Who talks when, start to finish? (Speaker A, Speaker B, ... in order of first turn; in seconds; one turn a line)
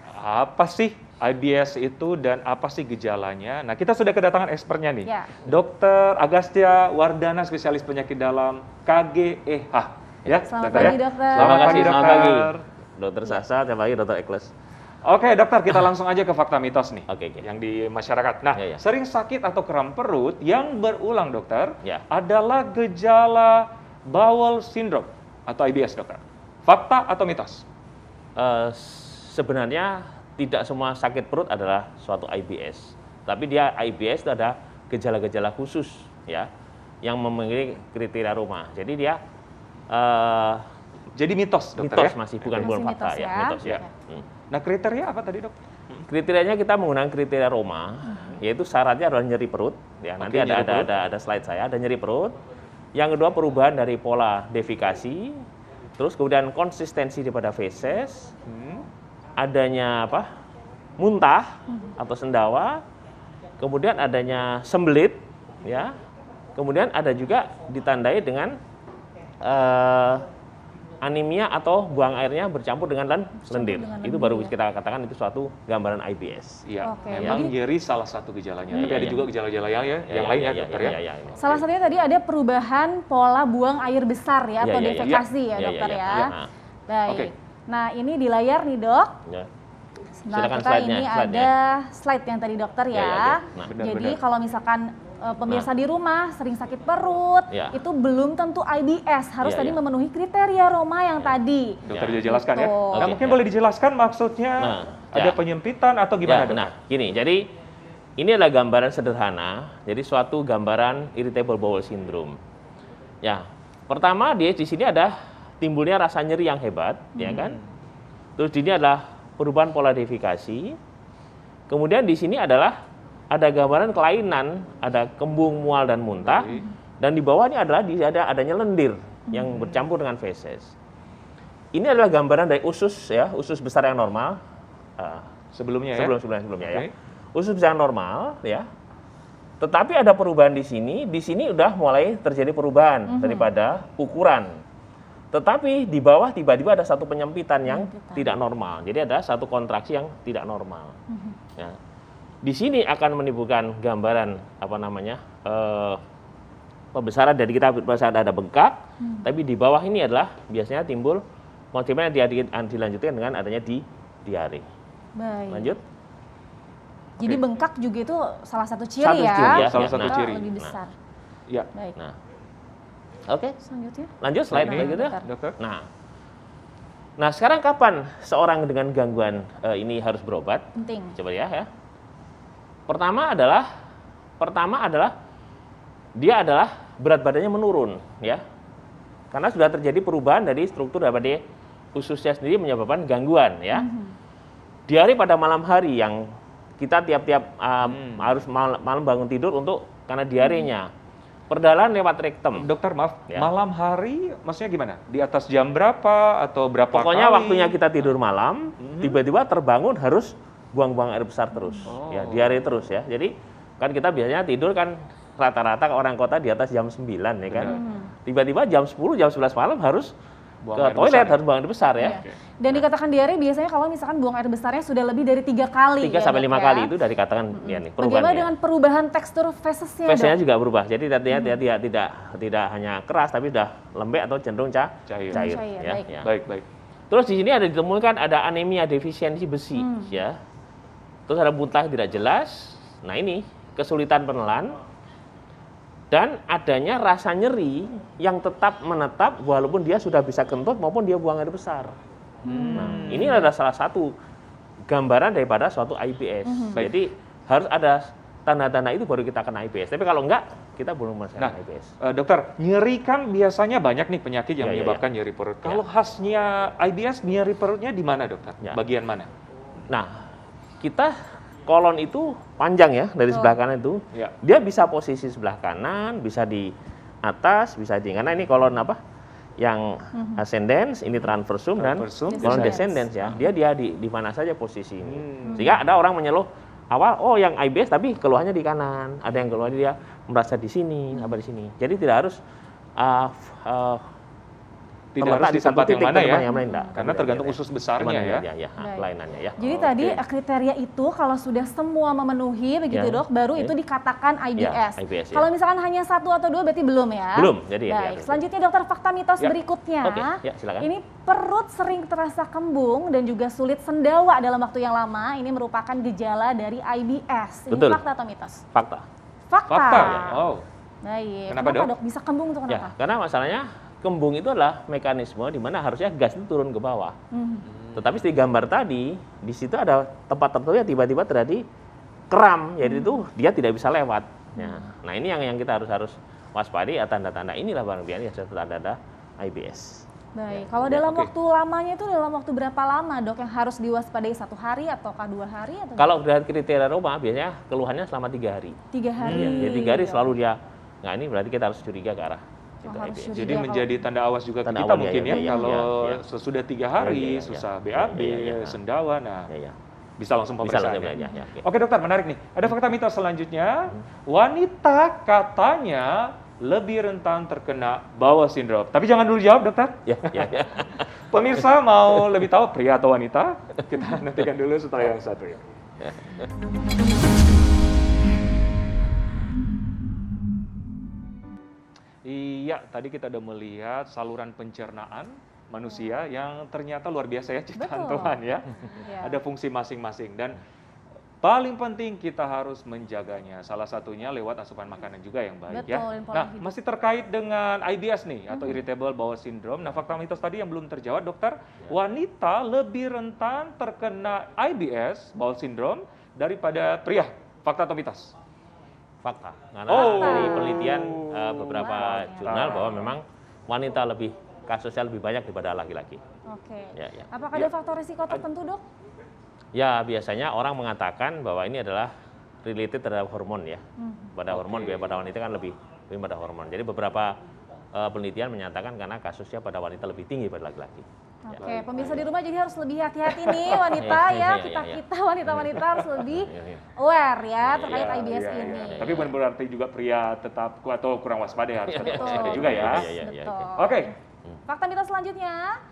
Speaker A: 0.1-12.6
Speaker B: 5.0-5.4
Speaker C: 10.2-14.5
Speaker B: 10.4-11.9
Speaker A: 15.0-27.6
Speaker C: 17.1-17.4
Speaker C: 18.5-18.8
Speaker C: 28.4-36.5
Speaker C: 37.0-39.2
Speaker C: 39.9-40.6
Speaker A: 41.1-42.7
Speaker C: 41.8-44.2
Speaker B: 42.6-43.9
Speaker A: 44.5-46.0
Speaker C: 46.1-52.4
Speaker A: 50.2-50.9
Speaker C: 52.9-55.4
Speaker C: 56.0-58.3
Speaker A: 58.5-58.9
Speaker C: 59.4-60.3
Speaker C: 61.0-62.8
Speaker C: 63.6-65.9
Speaker C: 66.5-68.5
Speaker C: 69.4-70.2
Speaker C: 71.0-77.5
Speaker B: 73.4-74.5
Speaker A: 76.7-81.0
Speaker B: 76.8-77.5
Speaker C: 78.7-79.3
Speaker B: 78.8-79.0
Speaker C: 80.1-81.7
Speaker B: 81.4-86.3
Speaker C: 84.6-86.5
Speaker A: 85.0-85.3
Speaker B: 86.9-89.2
Speaker B: 90.2-103.1
Speaker C: 90.3-91.5
Speaker C: 92.9-93.7
Speaker A: 93.6-94.2
Speaker C: 97.5-97.8
Speaker C: 99.4-99.8
Speaker A: 101.8-106.7
Speaker C: 101.9-102.2
Speaker C: 102.9-103.4
Speaker C: 104.6-105.4
Speaker C: 106.2-107.5
Speaker C: 108.2-112.3
Speaker C: 113.2-117.6
Speaker B: 117.1-117.5
Speaker A: 117.3-117.6
Speaker C: 118.4-120.8
Speaker C: 121.7-122.8
Speaker C: 123.3-130.7
Speaker A: 126.2-126.6
Speaker C: 131.7-134.4
Speaker C: 135.0-135.3
Speaker A: 135.5-136.9
Speaker C: 135.9-138.6
Speaker C: 139.6-144.6
Speaker B: 143.1-143.5
Speaker C: 145.3-151.0
Speaker B: 147.7-148.3
Speaker B: 151.1-151.4
Speaker C: 152.4-156.0
Speaker C: 156.9-164.6
Speaker B: 159.0-159.3
Speaker B: 165.2-165.8
Speaker C: 165.5-165.8
Speaker B: 167.2-170.9
Speaker C: 169.0-170.7
Speaker A: 169.4-170.5
Speaker C: 173.3-173.6
Speaker B: 173.6-175.2
Speaker C: 174.2-175.9
Speaker A: 174.5-175.6
Speaker C: 177.2-181.7
Speaker B: 180.7-181.2
Speaker C: 182.9-183.7
Speaker C: 184.4-185.1
Speaker C: 186.2-188.4
Speaker C: 189.3-191.4
Speaker C: 191.9-193.9
Speaker B: 193.7-194.2
Speaker C: 194.9-200.9
Speaker A: 197.8-198.4
Speaker B: 200.4-200.7
Speaker C: 201.5-202.7
Speaker A: 202.6-207.8
Speaker C: 206.9-220.1
Speaker A: 208.8-209.2
Speaker B: 211.6-211.9
Speaker A: 211.8-212.6
Speaker A: 217.5-217.8
Speaker B: 217.6-218.1
Speaker A: 220.6-221.4
Speaker C: 220.7-222.8
Speaker B: 222.0-226.9
Speaker A: 222.0-222.3
Speaker C: 226.0-228.5
Speaker B: 227.5-230.4
Speaker C: 230.1-236.3
Speaker B: 231.3-231.6
Speaker A: 235.1-235.4
Speaker B: 235.3-236.1
Speaker A: 236.2-236.6
Speaker C: 237.1-240.4
Speaker B: 239.8-240.2
Speaker C: 241.3-244.7
Speaker C: 246.1-251.9
Speaker A: 252.4-253.4
Speaker B: 252.4-253.2
Speaker C: 252.7-254.1
Speaker C: 254.9-261.9
Speaker B: 256.4-256.8
Speaker A: 256.7-257.0
Speaker A: 261.4-269.3
Speaker C: 264.6-265.0
Speaker C: 269.9-270.3
Speaker C: 270.8-276.7
Speaker B: 273.3-273.6
Speaker C: 277.2-279.0
Speaker C: 279.6-292.4
Speaker B: 280.1-280.4
Speaker A: 281.8-283.4
Speaker B: 282.3-283.0
Speaker A: 285.0-285.8
Speaker B: 285.4-285.8
Speaker C: 293.0-294.1
Speaker A: 295.1-298.4
Speaker C: 295.2-299.6
Speaker B: 296.3-296.9
Speaker B: 298.8-318.6
Speaker A: 299.6-300.2
Speaker C: 302.9-303.7
Speaker C: 304.6-305.4
Speaker C: 307.3-308.4
Speaker C: 310.0-310.9
Speaker C: 317.7-318.0
Speaker C: 318.7-319.1
Speaker B: 319.5-320.3
Speaker A: 319.7-320.6
Speaker C: 319.9-320.4
Speaker B: 321.0-323.0
Speaker A: 321.5-321.9
Speaker C: 322.7-327.1
Speaker B: 327.3-327.7
Speaker A: 327.7-328.1
Speaker C: 327.9-331.6
Speaker C: 332.3-340.0
Speaker B: 332.8-333.2
Speaker B: 340.4-346.1
Speaker C: 340.6-341.0
Speaker A: 340.9-341.3
Speaker C: 346.0-353.6
Speaker B: 348.9-350.3
Speaker A: 349.2-349.7
Speaker B: 352.9-354.0
Speaker A: 353.3-359.5
Speaker C: 354.6-356.2
Speaker B: 355.3-355.8
Speaker C: 357.0-358.8
Speaker C: 359.5-359.8
Speaker A: 360.2-370.7
Speaker C: 360.6-361.6
Speaker B: 361.1-361.4
Speaker C: 370.1-371.1
Speaker A: 371.3-375.6
Speaker A: 382.2-390.6
Speaker B: 387.8-389.4
Speaker A: 391.4-408.3
Speaker B: 395.7-396.7
Speaker B: 398.5-398.8
Speaker C: 409.2-416.2
Speaker A: 409.9-413.0
Speaker B: 409.9-410.9
Speaker B: 411.7-413.1
Speaker B: 416.5-418.8
Speaker C: 416.9-417.3
Speaker C: 419.7-422.1
Speaker C: 422.6-423.8
Speaker B: 424.0-424.3
Speaker C: 424.3-427.4
Speaker A: 424.5-425.1
Speaker C: 427.9-432.2
Speaker B: 431.4-439.3
Speaker A: 431.6-432.1
Speaker A: 433.3-434.1
Speaker C: 433.9-436.8
Speaker C: 437.6-439.2
Speaker A: 437.8-443.1
Speaker C: 441.9-443.7
Speaker B: 442.0-444.1
Speaker A: 443.8-444.1
Speaker B: 444.6-445.8